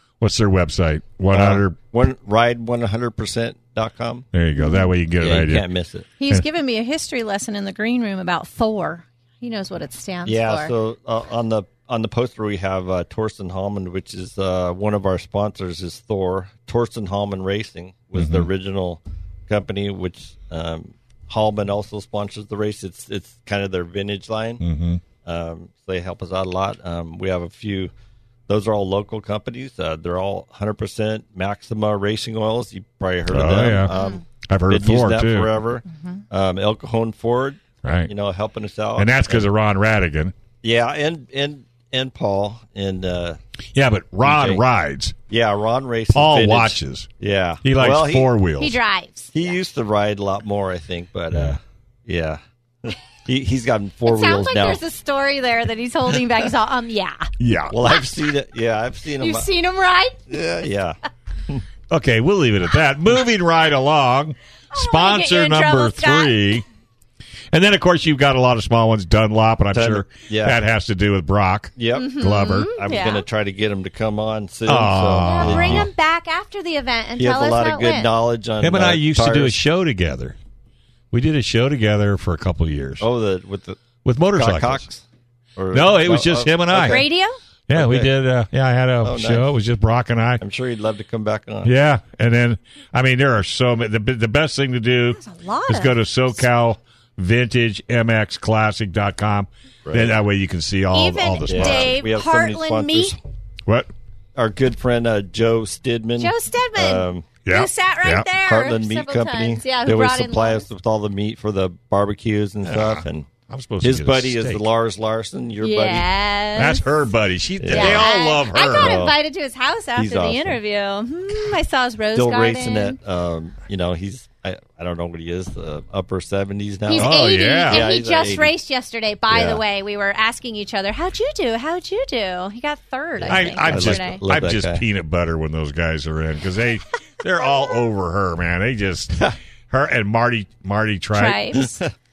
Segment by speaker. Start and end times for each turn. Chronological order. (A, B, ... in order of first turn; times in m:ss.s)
0:00.2-0:01.8 A
0:01.3-0:04.3 B
0:04.3-0:05.6 A
0:04.6-0:04.9 C
0:05.2-0:06.1 B
0:06.2-0:10.7 C
0:10.2-0:24.6 B
0:18.2-0:18.5 A
0:24.6-0:25.0 A
0:25.2-0:27.9 B
0:28.5-0:39.5 B
0:33.3-0:33.9 A
0:33.9-0:34.2 C
0:34.5-0:35.5 A
0:37.8-0:38.1 A
0:39.0-0:40.3 A
0:40.6-0:43.4 B
0:43.7-0:45.2 A
0:44.2-0:44.6 B
0:45.3-0:48.3 B
0:46.1-0:47.1 A
0:47.6-0:48.8 A
0:48.6-0:49.6 C
0:49.3-0:54.8 B
0:54.0-0:57.3 C
0:57.4-0:57.8 A
0:57.7-0:59.5 B
0:59.2-1:00.3 C
1:00.3-1:01.0 B
1:01.9-1:06.6 A
1:04.7-1:06.5 C
1:07.5-1:12.7 A
1:09.7-1:10.6 B
1:11.8-1:15.9 B
1:11.9-1:13.2 C
1:14.7-1:15.9 A
1:15.2-1:18.1 C
1:17.2-1:19.6 B
1:18.6-1:20.4 A
1:21.1-1:23.0 A
1:23.0-1:25.0 B
1:24.0-1:24.8 A
1:25.6-1:27.0 B
1:25.7-1:27.1 A
1:26.8-1:27.4 C
1:27.7-1:30.4 A
1:27.7-1:28.2 B
1:29.0-1:29.5 B
1:30.4-1:31.7 B
1:31.6-1:42.0 A
1:35.1-1:36.0 C
1:39.8-1:40.2 B
1:40.9-1:43.2 C
1:41.4-1:43.2 B
1:44.4-1:47.3 B
1:46.2-1:50.6 C
1:47.4-1:48.2 A
1:48.4-1:53.3 B
1:52.6-1:54.6 A
1:53.8-1:56.1 B
1:55.6-1:56.8 C
1:56.6-1:59.0 A
1:57.6-1:59.2 B
1:57.6-2:03.0 C
2:00.0-2:00.6 B
2:02.1-2:08.5 B
2:06.9-2:14.2 C
2:06.9-2:07.8 A
2:09.3-2:09.6 B
2:13.2-2:14.8 B
2:13.2-2:21.7 A
2:21.1-2:21.6 C
2:21.5-2:21.9 B